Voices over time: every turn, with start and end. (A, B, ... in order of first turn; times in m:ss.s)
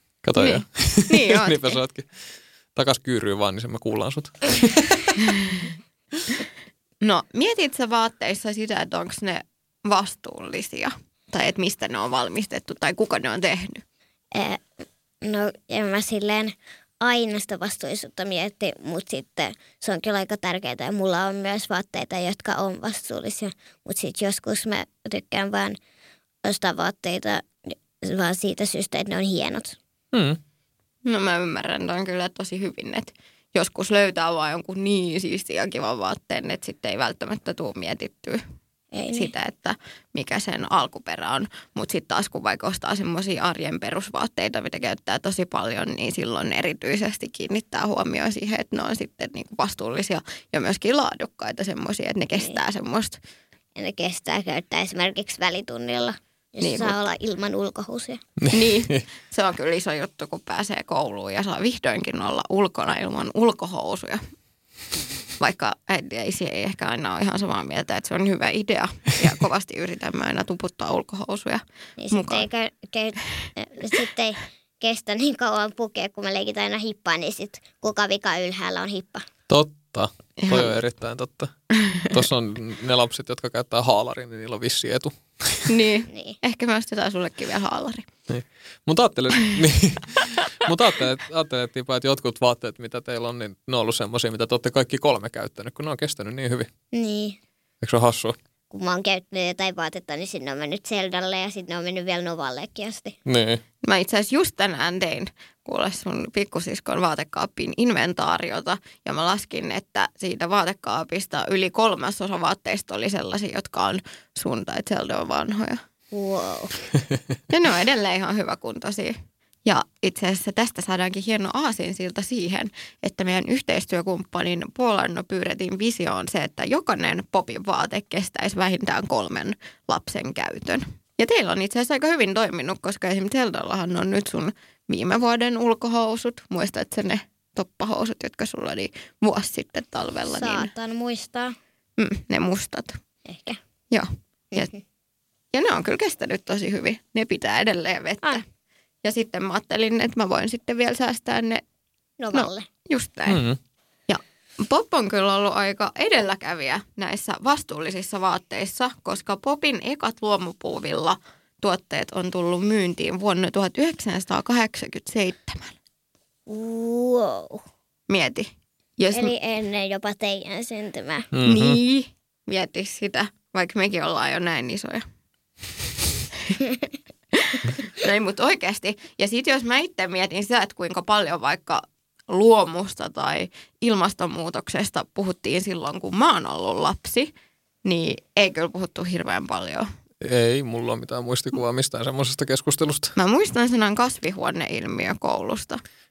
0:00.2-0:02.1 A
0:00.4-0:01.8 B
0:02.7-0:05.2 A
0:05.3-0:05.7 B
0:07.0-0:13.8 B
0:14.3-0:14.6 C
0:15.2-0:25.8 C
0:26.4-0:29.8 C
0:30.1-0:30.4 A
0:31.0-0:38.4 B
0:38.9-0:39.3 C
0:39.1-0:53.2 B
0:53.8-0:58.2 C
0:56.6-0:56.9 B
0:58.4-0:59.0 A
0:58.5-1:04.2 B
1:05.4-1:12.5 B
1:12.0-1:19.2 C
1:19.5-1:21.5 A
1:20.4-1:20.7 B
1:21.8-1:22.1 B
1:22.1-1:25.7 A
1:25.7-1:28.0 B
1:26.1-1:26.4 C
1:28.3-1:36.7 A
1:36.9-1:37.4 C
1:37.8-1:38.4 A
1:38.7-1:43.2 C
1:43.2-1:43.6 A
1:43.8-1:55.8 B
1:56.1-1:56.8 C
1:57.5-2:20.7 B
2:20.3-2:21.6 C
2:22.0-2:23.0 B
2:23.2-2:23.6 C
2:23.9-2:24.7 B
2:24.5-2:24.8 C
2:25.5-2:28.4 B
2:29.0-2:31.6 B
2:32.2-2:32.6 C
2:32.3-2:33.4 B
2:33.3-2:33.6 A
2:34.1-2:45.7 B
2:46.5-2:47.6 C
2:48.1-2:49.3 B
2:49.1-2:51.3 C
2:51.3-2:51.8 A
2:51.4-2:55.0 B
2:57.3-3:07.3 B
3:07.8-3:09.9 B
3:10.2-3:13.1 A
3:13.2-3:15.8 B